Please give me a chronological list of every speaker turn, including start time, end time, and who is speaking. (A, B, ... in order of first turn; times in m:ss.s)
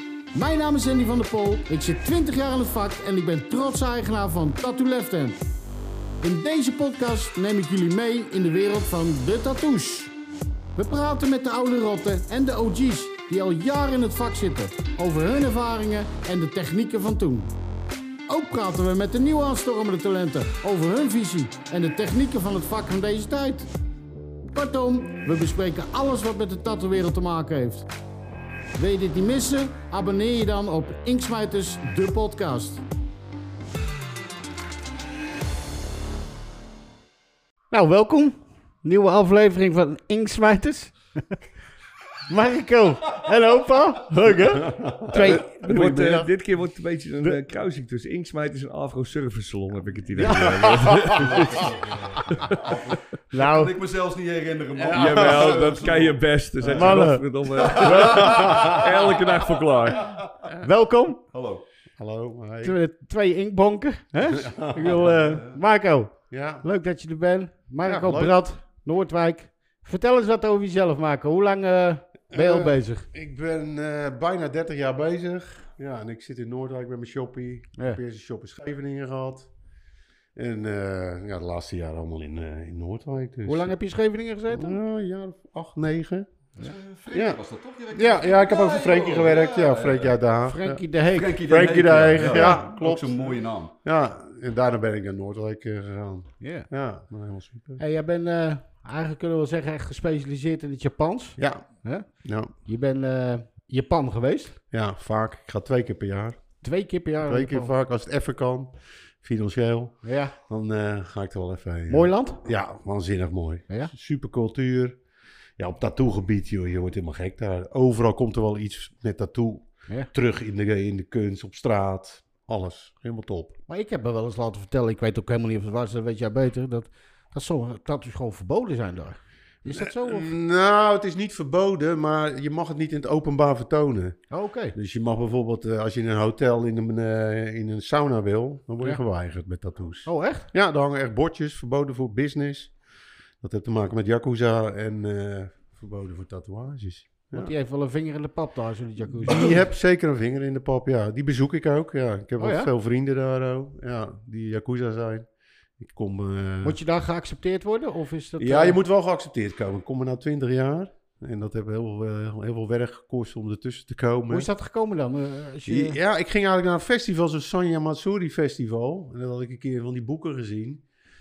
0:00.3-0:05.4 A
0:06.2-0:10.1 A
0:10.8-0:17.5 A
0:18.3-0:23.7 A
0:24.5-0:27.9 A
0:28.8-0:32.8 A
0:37.7-0:41.4 A
0:42.3-0:46.2 A
0:44.4-0:46.3 B
0:45.1-0:51.7 C
0:50.2-0:51.2 A
0:50.3-0:51.1 B
0:50.9-0:57.0 D
0:53.3-0:53.7 A
0:54.9-0:55.7 B
0:54.9-1:00.1 C
0:56.7-0:58.8 A
0:57.5-1:00.5 D
0:58.2-0:58.8 B
1:00.6-1:01.2 A
1:01.3-1:01.6 D
1:02.0-1:02.7 B
1:02.6-1:13.0 A
1:04.3-1:05.0 B
1:04.9-1:05.6 D
1:06.3-1:06.6 B
1:07.8-1:08.4 B
1:12.3-1:19.5 B
1:20.3-1:23.7 B
1:23.4-1:24.8 A
1:24.5-1:26.3 B
1:26.6-1:30.1 D
1:27.1-1:27.4 B
1:27.9-1:30.8 B
1:30.5-1:31.4 A
1:31.1-1:33.7 D
1:31.4-1:37.8 B
1:32.2-1:32.6 A
1:36.4-1:36.7 A
1:37.8-1:42.1 A
1:41.4-1:42.5 B
1:42.6-1:44.6 A
1:44.7-1:46.4 B
1:46.6-1:47.7 A
1:47.2-1:55.0 B
1:50.0-1:50.3 A
1:51.9-1:52.4 A
1:55.6-2:03.5 B
2:03.7-2:10.3 A
2:09.7-2:14.2 B
2:14.3-2:14.7 A
2:14.7-2:22.7 B
2:20.0-2:20.5 A
2:23.4-2:27.5 B
2:27.3-2:29.6 A
2:29.1-2:35.2 B
2:32.4-2:32.7 A
2:35.8-2:36.8 B
2:36.6-2:38.8 A
2:38.4-2:44.5 B
2:44.3-2:46.0 A
2:45.7-2:50.8 B